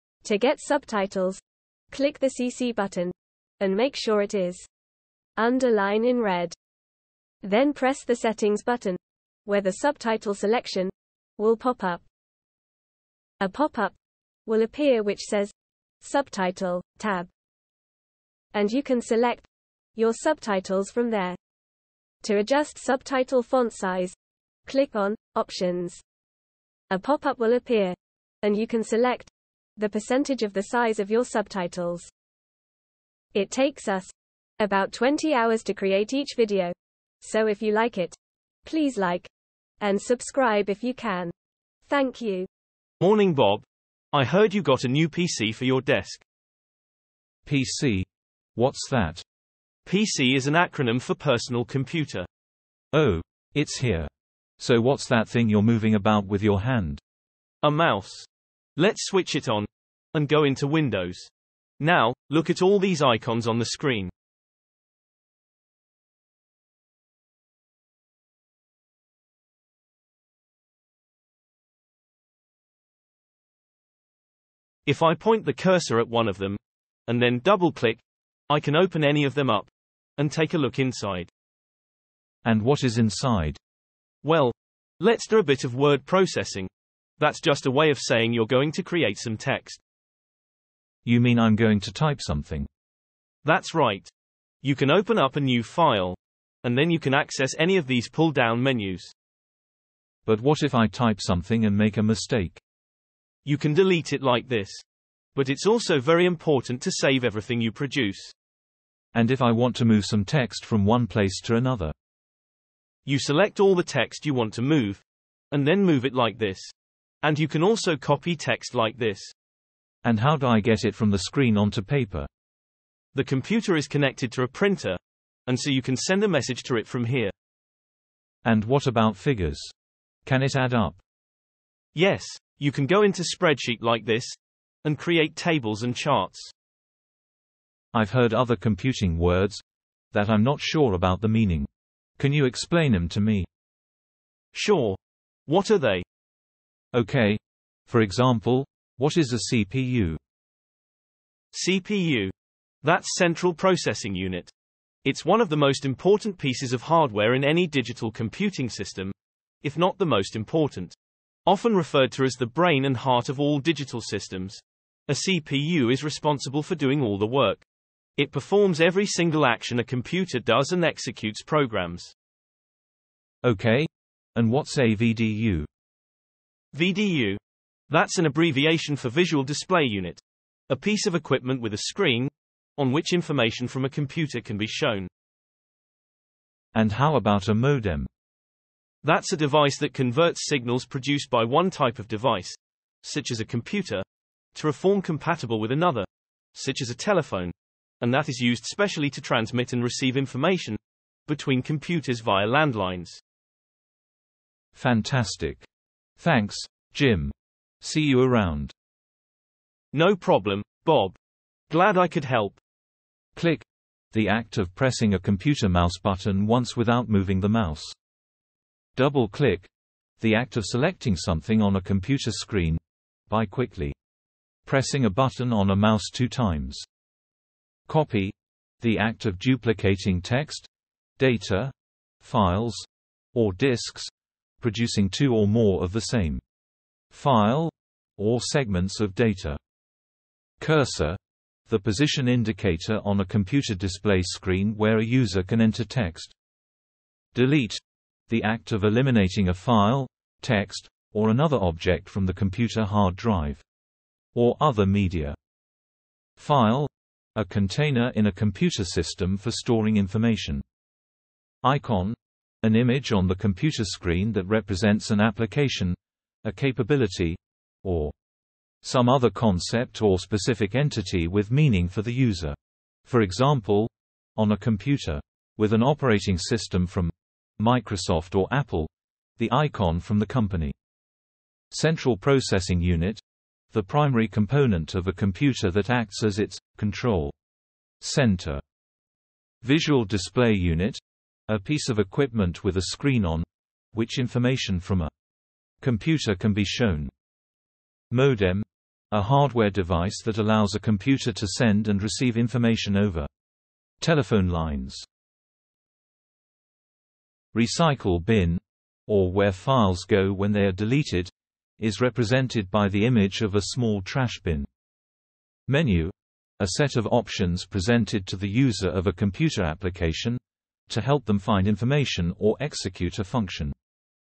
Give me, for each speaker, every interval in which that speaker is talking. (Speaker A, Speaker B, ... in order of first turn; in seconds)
Speaker A: 0.2-1.4, 1.9-4.7, 5.4-6.5, 7.4-12.1, 13.4-13.9, 14.5-17.3, 18.5-21.4, 22.2-24.1, 24.7-26.0, 26.9-32.1, 33.3-39.3, 39.8-41.3, 41.9-42.5
Speaker B: 43.0-46.2, 49.9-52.3, 57.6-64.1, 74.9-81.3, 84.2-89.8, 93.5-94.1, 94.6-99.1, 103.5-104.8, 105.4-108.3, 113.1-119.3, 123.2-127.3, 131.9-136.5, 144.5-146.0, 151.5-154.5, 155.1-160.9, 161.5-167.6, 168.2-172.1, 176.7-177.4, 177.9-185.1, 189.0-194.0, 194.6-203.2, 209.9-211.2, 211.7-212.6
Speaker C: 47.5-49.2, 52.9-57.0, 82.5-83.6, 91.0-92.7, 100.3-102.6, 109.1-111.9, 120.0-122.3, 128.4-129.7, 130.2-131.0, 137.9-141.7, 142.2-143.5, 146.9-150.2, 173.4-175.7, 186.8-188.1, 204.8-205.7, 206.2-208.7, 213.3-217.9, 219.0-219.7, 220.2-223.9, 224.7-226.9, 227.9-236.4, 237.1-239.6, 240.6-246.3, 247.3-253.6, 254.3-255.4, 256.4-260.6, 261.6-268.1, 268.8-280.8, 281.7-287.3, 288.0-288.6, 289.6-295.1, 295.8-297.1, 298.1-303.3, 304.0-305.1, 307.5-314.7, 315.7-323.7